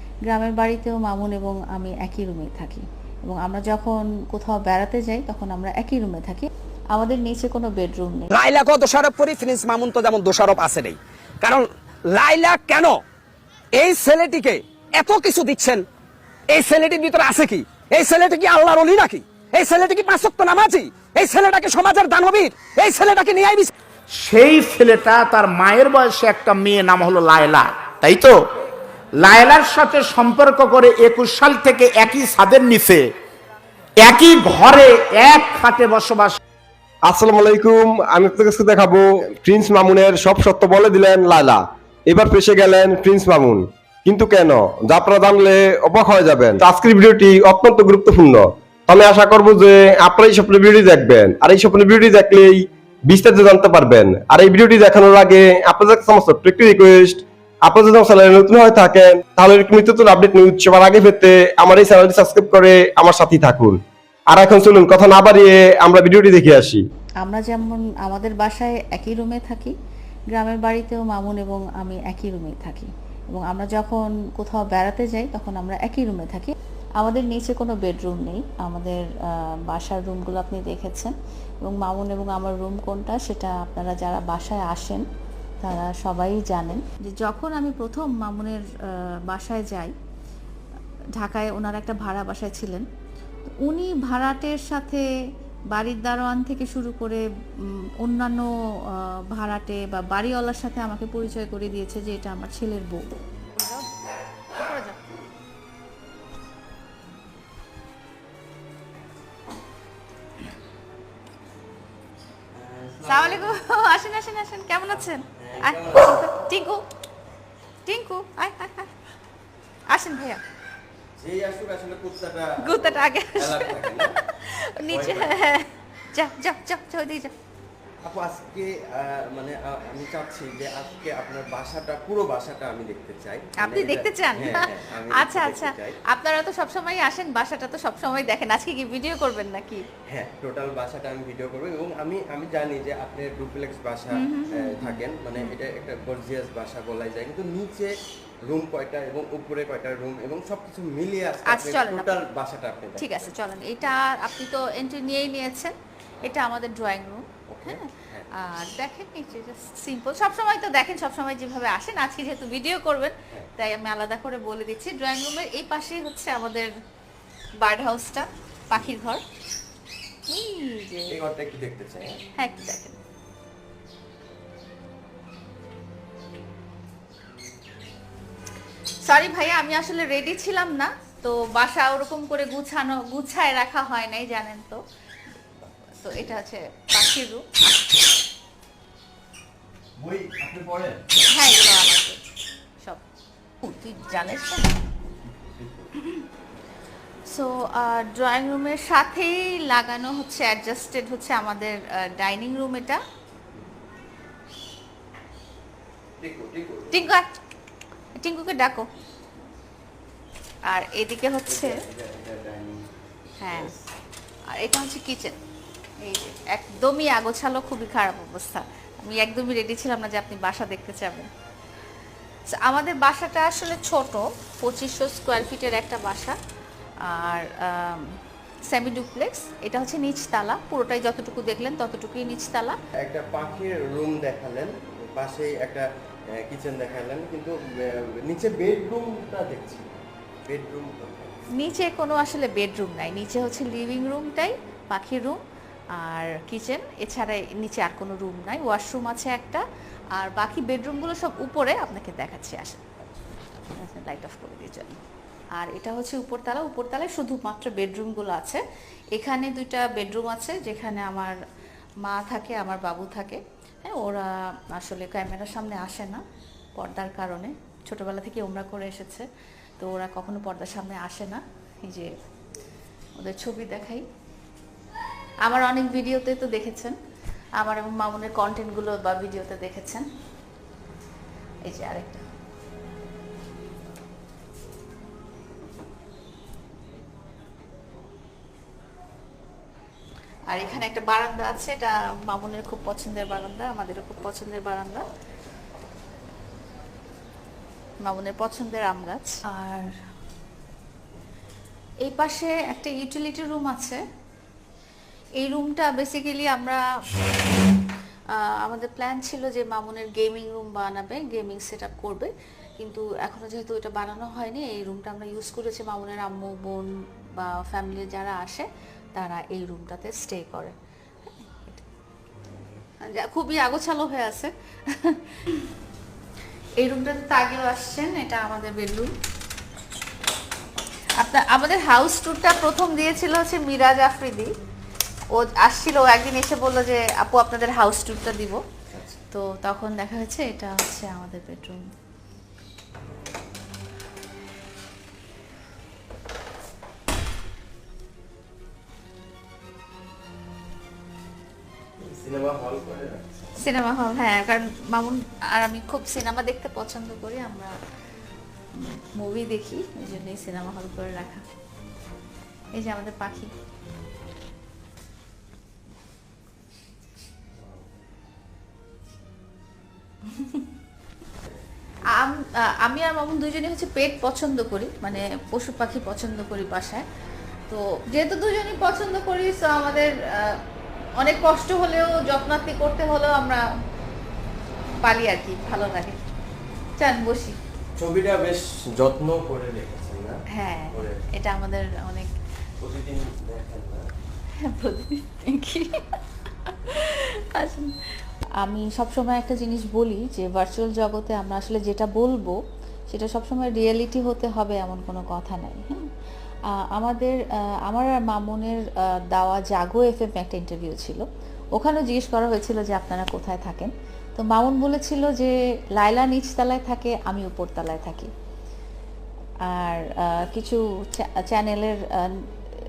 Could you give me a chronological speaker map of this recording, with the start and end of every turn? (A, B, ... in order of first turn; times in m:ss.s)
0:00.3-0:08.3 A
0:08.3-0:13.0 B
0:13.7-0:15.8 B
0:16.5-0:23.7 B
0:24.1-0:28.4 C
0:29.2-0:33.0 C
0:34.0-0:36.4 C
0:37.0-1:06.8 D
1:07.2-1:09.7 A
1:10.3-1:25.1 A
1:25.6-1:29.9 A
1:31.2-1:32.9 A
1:33.4-1:35.1 A
1:35.7-1:43.9 A
1:44.5-1:45.1 A
1:52.5-1:53.5 E
1:53.1-1:56.8 A
1:55.4-1:56.3 E
1:57.9-1:58.9 A
1:59.9-2:00.4 A
2:01.2-2:04.2 E
2:02.6-2:07.3 A
2:04.9-2:05.4 E
2:08.0-2:16.0 E
2:13.6-2:19.8 A
2:20.1-2:27.9 E
2:24.2-2:25.5 A
2:28.4-2:33.3 E
2:31.5-2:32.2 A
2:33.0-2:46.7 A
2:37.5-2:38.3 E
2:47.6-2:49.2 A
2:50.3-2:51.2 A
2:51.1-2:52.2 E
2:52.4-2:53.0 A
2:59.0-3:04.8 A
3:06.0-3:08.0 A
3:10.0-3:11.0 E
3:11.3-3:12.2 A
3:13.6-3:14.8 A
3:15.3-3:15.9 E
3:17.3-3:23.0 A
3:26.2-3:27.1 E
3:26.9-3:27.3 A
3:28.2-3:28.9 A
3:30.7-3:31.8 A
3:31.5-3:32.9 E
3:33.4-3:33.7 A
3:33.4-3:33.8 E
3:34.5-3:35.4 A
3:36.0-3:41.3 A
3:42.5-3:46.4 A
3:47.1-3:48.1 A
3:48.7-3:52.8 A
3:53.0-3:55.8 E
3:56.4-4:01.4 E
4:01.6-4:05.4 A
4:06.0-4:09.6 A
4:10.1-4:12.8 A
4:13.8-4:15.0 A
4:15.6-4:18.6 A
4:19.1-4:21.4 A
4:22.0-4:26.2 A
4:26.8-4:29.3 A
4:29.8-4:32.1 A
4:33.2-4:34.0 A
4:35.4-4:37.0 A
4:37.6-4:40.0 A
4:41.6-4:42.3 A
4:50.5-4:55.0 A
4:58.0-4:59.9 A
5:02.0-5:04.0 A
5:05.4-5:06.8 A
5:08.3-5:20.7 A
5:21.3-5:21.9 A
5:23.0-5:25.2 A
5:26.8-5:29.1 A
5:31.2-5:34.5 A
5:35.3-5:38.6 A
5:38.9-5:39.2 E
5:39.3-5:41.9 A
5:52.0-5:53.3 E
5:53.6-5:57.8 A
5:58.7-6:01.4 A
6:02.7-6:03.5 A
6:07.6-6:07.8 E
6:12.1-6:17.0 A
6:17.7-6:20.6 A
6:21.2-6:23.6 A
6:25.0-6:26.2 A
6:27.0-6:27.6 A
6:28.0-6:31.2 E
6:30.5-6:32.3 A
6:32.8-6:34.1 E
6:34.6-6:36.1 A
6:36.6-6:37.9 A
6:38.6-6:42.6 A
6:43.1-6:46.1 A
6:46.7-6:58.3 A
6:59.7-7:02.4 A